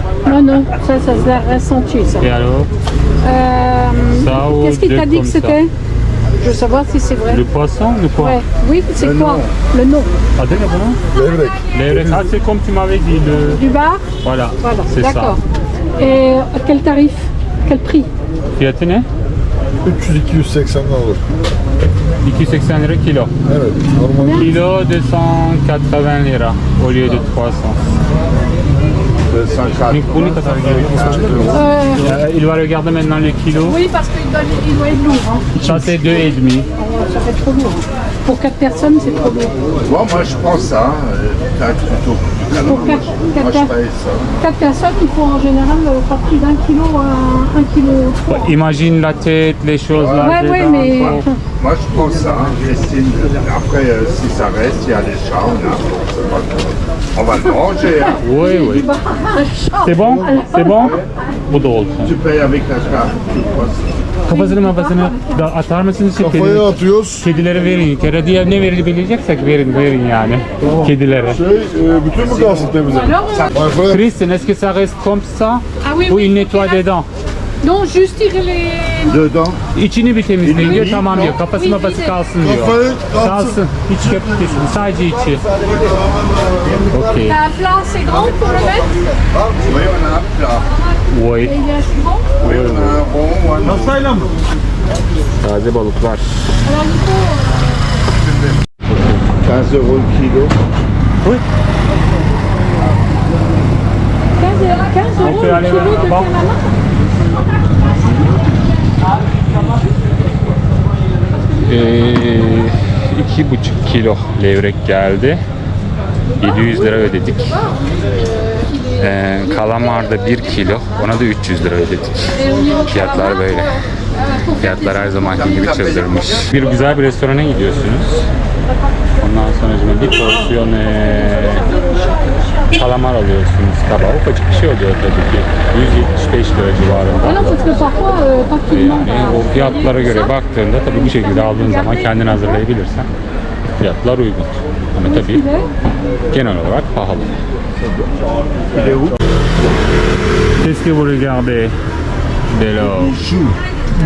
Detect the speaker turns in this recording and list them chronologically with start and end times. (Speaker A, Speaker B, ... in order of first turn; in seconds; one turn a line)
Speaker A: 0.2-2.3
Speaker B: 2.2-2.7
Speaker A: 3.2-5.7
Speaker B: 4.1-5.6
Speaker A: 6.4-7.4
Speaker B: 7.3-8.4
Speaker A: 8.2-10.1
Speaker C: 9.0-9.5
Speaker B: 10.3-11.0
Speaker D: 11.1-12.3
Speaker B: 11.7-13.6
Speaker A: 13.5-14.1
Speaker B: 14.2-15.4
Speaker A: 14.6-15.4
Speaker A: 16.0-18.1
Speaker B: 18.6-19.1
Speaker D: 19.8-21.2
Speaker B: 22.2-23.3
Speaker D: 23.4-24.5
Speaker A: 24.2-24.5
Speaker B: 24.3-27.8
Speaker C: 29.3-31.6
Speaker B: 29.9-33.8
Speaker A: 31.5-32.1
Speaker A: 33.6-35.6
Speaker B: 35.5-36.7
Speaker A: 36.7-39.5
Speaker C: 39.8-44.3
Speaker A: 42.6-43.7
Speaker A: 44.4-48.5
Speaker B: 48.3-51.3
Speaker C: 49.9-50.3
Speaker A: 50.2-51.4
Speaker C: 51.6-58.2
Speaker A: 58.0-61.0
Speaker B: 58.2-58.9
Speaker B: 59.8-62.1
Speaker C: 62.0-63.9
Speaker B: 64.3-71.4
Speaker A: 64.3-65.3
Speaker D: 66.2-67.2
Speaker D: 70.6-74.1
Speaker C: 72.1-73.5
Speaker A: 72.8-73.5
Speaker B: 73.8-77.1
Speaker A: 75.8-76.8
Speaker A: 77.6-79.2
Speaker C: 79.1-79.6
Speaker B: 79.7-85.4
Speaker C: 80.4-81.3
Speaker A: 80.6-82.2
Speaker D: 82.4-83.6
Speaker B: 86.9-87.4
Speaker A: 87.2-89.2
Speaker C: 89.6-90.7
Speaker B: 91.1-91.6
Speaker A: 91.4-92.3
Speaker C: 92.4-94.3
Speaker B: 92.4-93.0
Speaker B: 95.4-96.4
Speaker A: 96.6-97.6
Speaker C: 98.1-98.5
Speaker B: 98.9-99.2
Speaker C: 99.4-100.5
Speaker A: 104.4-106.6
Speaker B: 105.2-106.3
Speaker B: 111.6-115.4
Speaker B: 116.4-117.6
Speaker A: 117.7-120.3
Speaker B: 119.0-123.8
Speaker A: 122.3-125.4
Speaker B: 124.6-128.3
Speaker C: 125.2-126.5
Speaker B: 129.2-131.7
Speaker A: 131.7-132.6
Speaker B: 132.7-137.9
Speaker A: 137.2-142.6
Speaker B: 138.7-143.1
Speaker B: 143.8-145.4
Speaker A: 145.0-145.7
Speaker B: 146.3-147.3
Speaker C: 148.7-149.2
Speaker B: 150.6-151.8
Speaker B: 152.5-153.2
Speaker C: 152.8-153.6